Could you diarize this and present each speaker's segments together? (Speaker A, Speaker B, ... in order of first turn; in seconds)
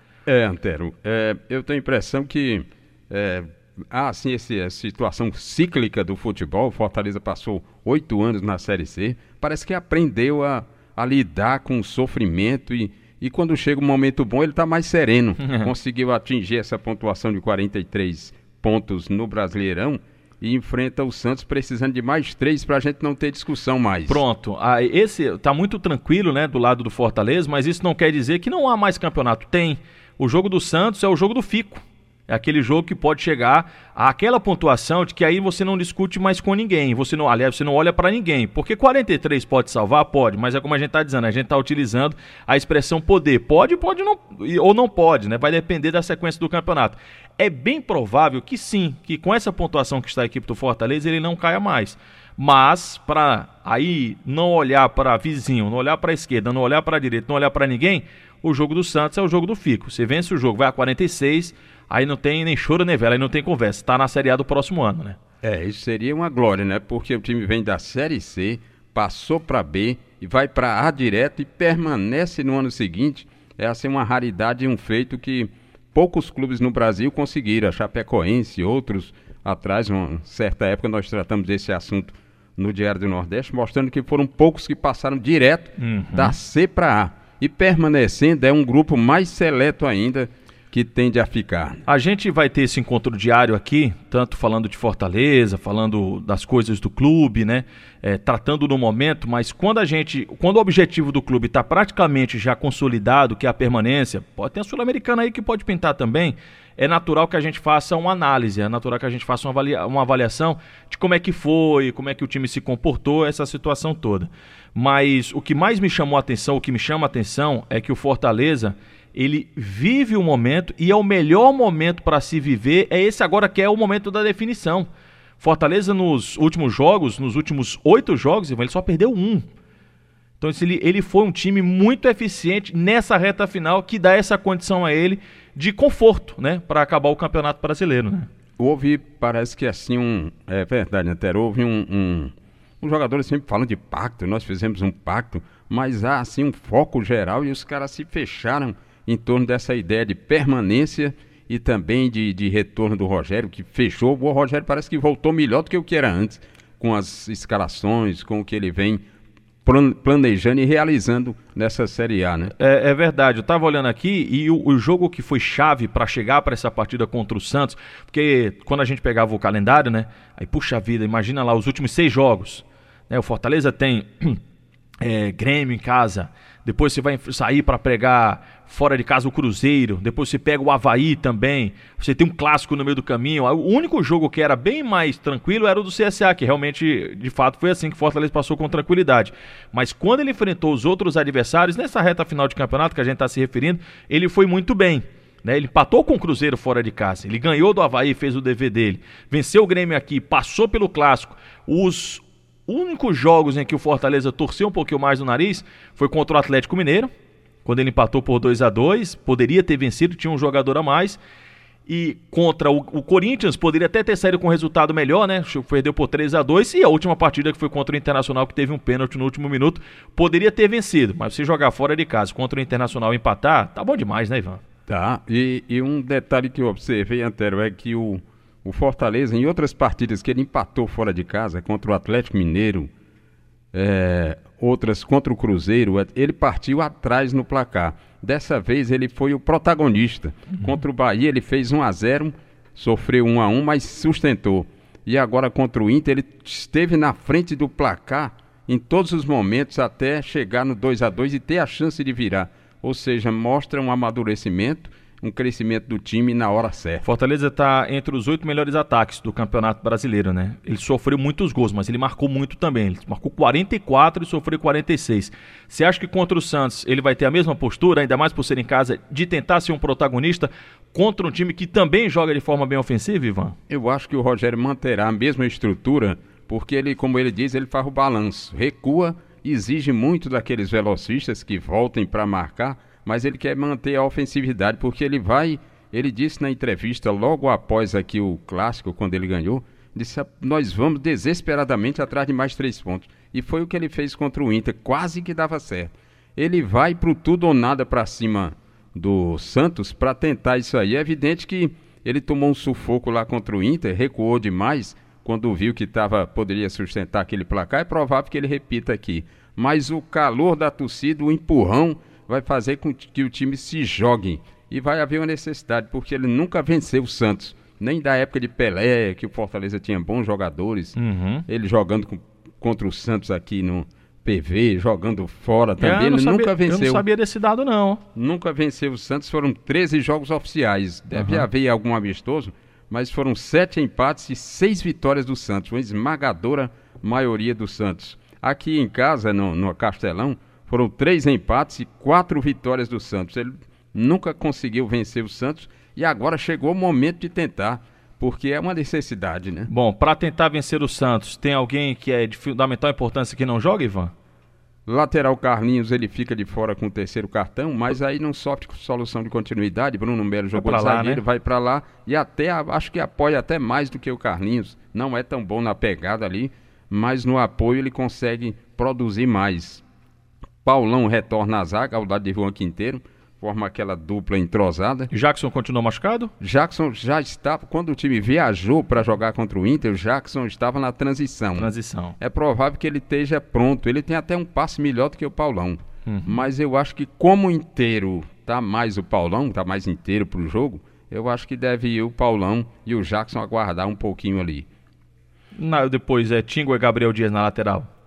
Speaker A: 0.2-24.2, 65.4-91.8, 138.6-159.0, 159.6-162.5, 224.9-232.9, 233.7-257.1, 273.7-320.9, 321.5-327.0, 328.1-349.7, 354.9-369.8, 370.6-375.1, 376.4-394.7
Speaker B: 15.4-15.7, 24.1-65.2, 85.8-86.4, 91.9-124.9, 125.4-129.5, 130.4-138.3, 162.6-174.4, 175.0-207.1, 207.6-211.2, 211.8-224.6, 257.0-273.6, 320.9-321.4, 325.8-328.0, 331.1-331.5, 349.7-354.1, 360.6-361.2, 375.1-376.3, 381.6-382.1, 386.1-386.4, 395.5-397.9